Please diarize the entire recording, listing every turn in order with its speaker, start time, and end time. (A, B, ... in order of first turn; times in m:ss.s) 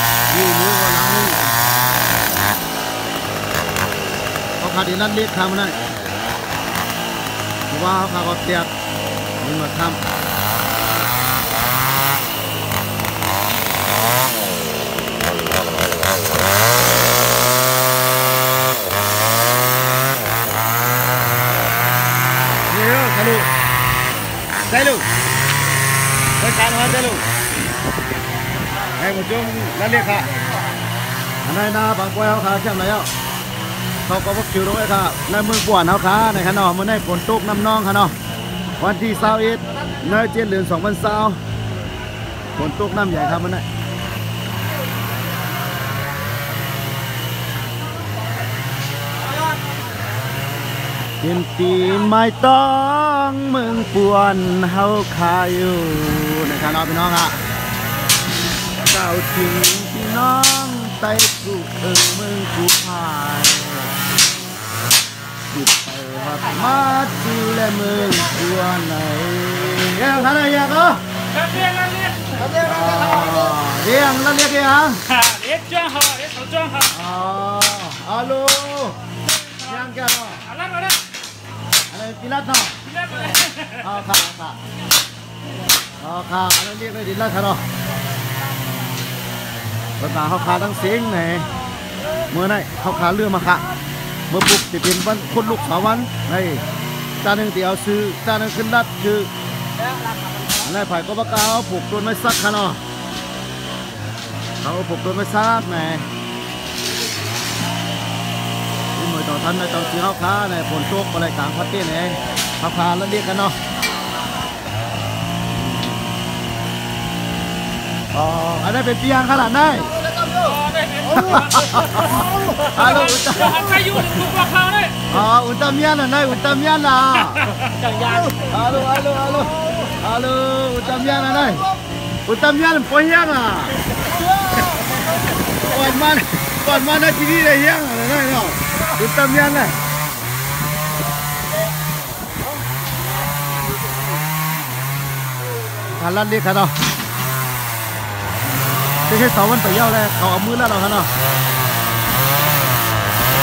0:00.3-0:01.5 A
0:04.6-0:05.8 A
0:07.7-0:08.7 A
0:09.4-0:10.0 A
0:22.7-0:23.5 A
0:24.7-0:25.1 A
0:26.4-0:27.2 A
0:28.9-0:30.4 A
0:31.4-0:33.1 A
0:34.1-0:38.2 A
0:38.8-0:41.4 A
0:42.6-0:43.7 A
0:51.2-0:57.4 A
0:58.8-1:04.0 A
1:05.5-1:11.0 A
1:11.4-1:12.5 B
1:12.4-1:15.0 A
1:15.1-1:16.9 B
1:16.9-1:20.5 A
1:20.5-1:21.0 B
1:21.9-1:22.8 A
1:23.0-1:23.8 B
1:23.8-1:24.6 A
1:26.0-1:27.6 A
1:30.0-1:31.5 A
1:32.3-1:33.7 A
1:34.3-1:36.6 A
1:37.2-1:39.3 A
1:40.6-1:42.8 A
1:44.6-1:46.1 A
1:49.0-1:53.6 A
1:55.7-1:56.0 A
1:58.1-2:00.1 A
2:00.3-2:05.1 B
2:01.1-2:04.1 A
2:05.1-2:07.4 A
2:07.7-2:08.3 B
2:08.4-2:11.7 A
2:12.3-2:13.8 A
2:15.6-2:19.8 A
2:25.9-2:26.8 A
2:29.1-2:31.1 A